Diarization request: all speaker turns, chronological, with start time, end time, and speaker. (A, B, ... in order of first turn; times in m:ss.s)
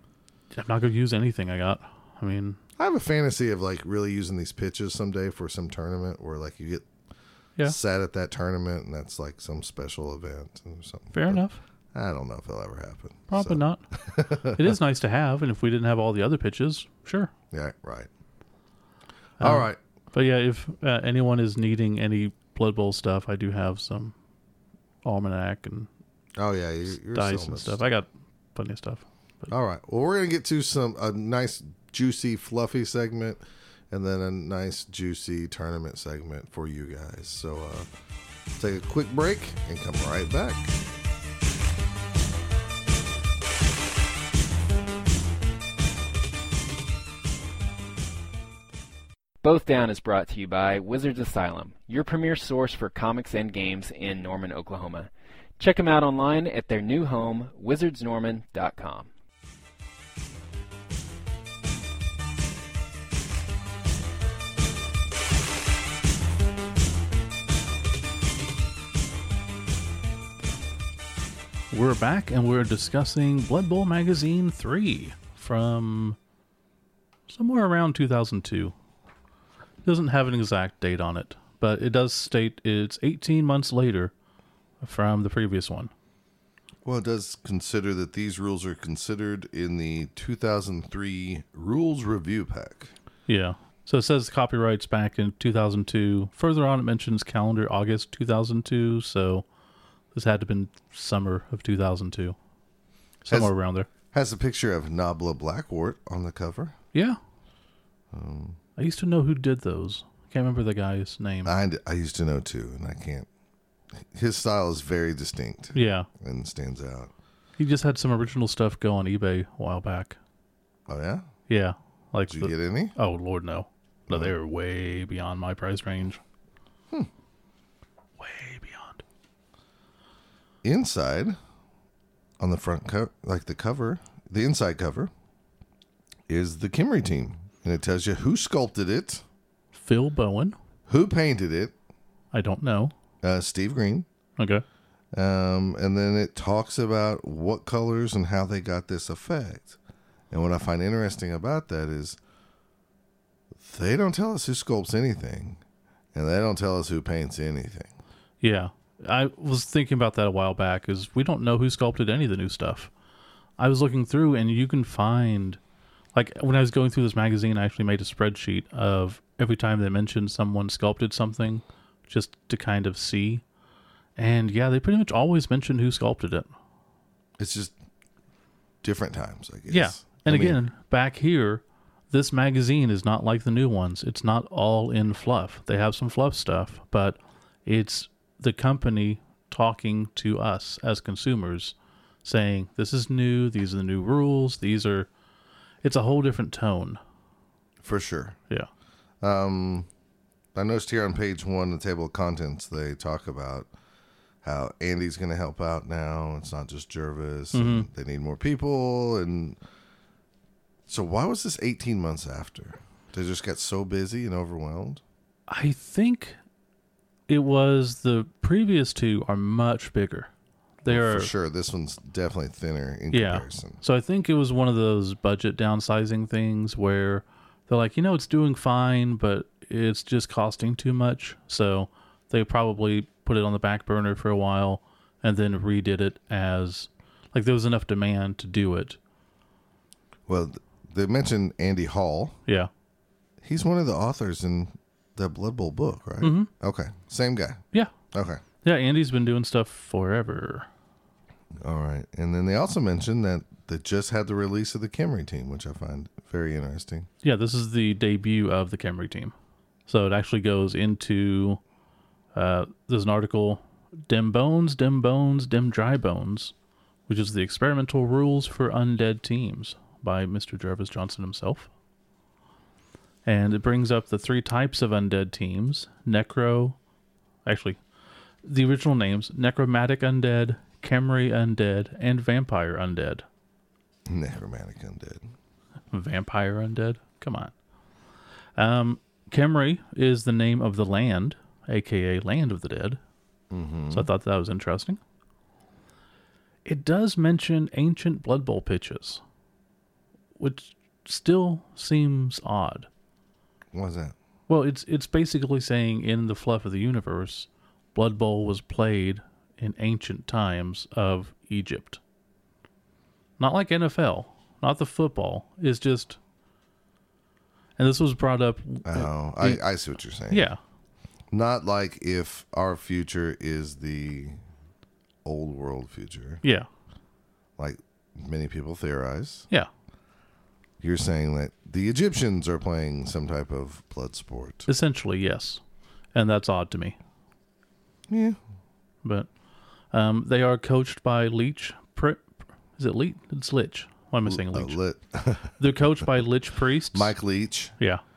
0:00.5-0:02.6 A
0:02.8-0:06.9 B
0:07.6-0:11.4 B
0:11.1-0:11.6 A
0:11.9-0:14.7 B
0:13.3-0:13.8 A
0:14.4-0:17.3 A
0:17.5-0:18.1 B
0:19.4-0:19.8 B
0:19.4-0:24.1 A
0:25.0-0:25.9 A
0:26.4-0:27.8 B
0:27.1-0:29.5 A
0:29.5-0:37.9 B
0:38.6-0:40.7 B
0:49.4-0:59.1 C
1:11.7-1:16.2 A
1:17.3-1:18.7 A
1:19.8-1:24.1 A
1:24.8-1:25.9 A
1:26.8-1:32.9 B
1:33.3-1:39.4 A
1:40.1-1:42.4 A
1:43.2-1:43.9 A
1:44.1-1:46.7 B
1:48.1-1:48.6 B
1:48.8-1:51.5 A
1:51.4-1:53.3 B
1:54.0-1:57.1 B
1:55.7-1:56.1 A
1:57.6-2:00.2 A
2:00.9-2:01.3 B
2:01.5-2:06.2 A
2:02.3-2:02.9 B
2:08.2-2:09.0 A
2:10.6-2:11.4 B
2:12.4-2:15.1 B
2:16.3-2:19.2 B
2:19.7-2:20.6 A
2:20.9-2:21.7 B
2:22.3-2:22.9 A
2:23.2-2:24.1 B
2:24.4-2:24.6 A
2:25.1-2:29.8 B
2:30.3-2:32.2 B
2:33.6-2:35.6 B
2:36.1-2:37.9 B
2:38.4-2:42.9 A
2:43.6-2:45.6 A
2:46.1-2:53.4 A
2:54.2-2:56.5 A
2:57.4-2:57.7 B
2:58.8-3:00.6 B
2:59.7-3:11.7 A
3:12.2-3:15.1 A
3:15.8-3:17.0 A
3:17.8-3:18.4 B
3:19.2-3:19.9 B
3:20.5-3:23.7 B
3:24.4-3:29.6 B
3:27.5-3:27.9 A
3:30.9-3:35.0 B
3:35.5-3:36.4 A
3:37.3-3:40.3 A
3:40.8-3:41.3 A
3:40.8-3:43.8 B
3:43.1-3:59.0 A
4:00.3-4:02.4 B
4:03.4-4:08.4 B
4:06.2-4:06.5 A
4:08.6-4:10.7 A
4:11.6-4:17.1 B
4:17.2-4:19.3 A
4:19.9-4:21.6 A
4:22.3-4:26.5 A
4:27.1-4:31.7 A
4:33.2-4:36.8 A
4:37.4-4:37.8 A
4:38.4-4:43.2 A
4:44.1-4:45.3 B
4:45.9-4:47.5 A
4:48.6-4:53.0 A
4:53.5-4:54.1 B
4:53.9-4:55.0 A
4:56.6-4:59.2 A
5:00.4-5:02.9 A
5:03.7-5:04.1 B
5:04.5-5:12.0 A
5:13.4-5:16.2 A
5:17.8-5:19.6 A
5:18.8-5:20.5 B
5:20.3-5:20.6 A
5:21.3-5:24.4 B
5:25.2-5:26.4 B
5:27.6-5:29.5 B
5:30.8-5:34.7 B
5:34.7-5:35.6 A
5:36.1-5:37.0 A
5:38.1-5:38.4 B
5:39.0-5:39.3 A
5:39.9-5:42.2 A
5:42.8-5:44.8 A
5:44.2-5:46.0 B
5:45.6-5:47.1 A
5:46.9-5:47.7 B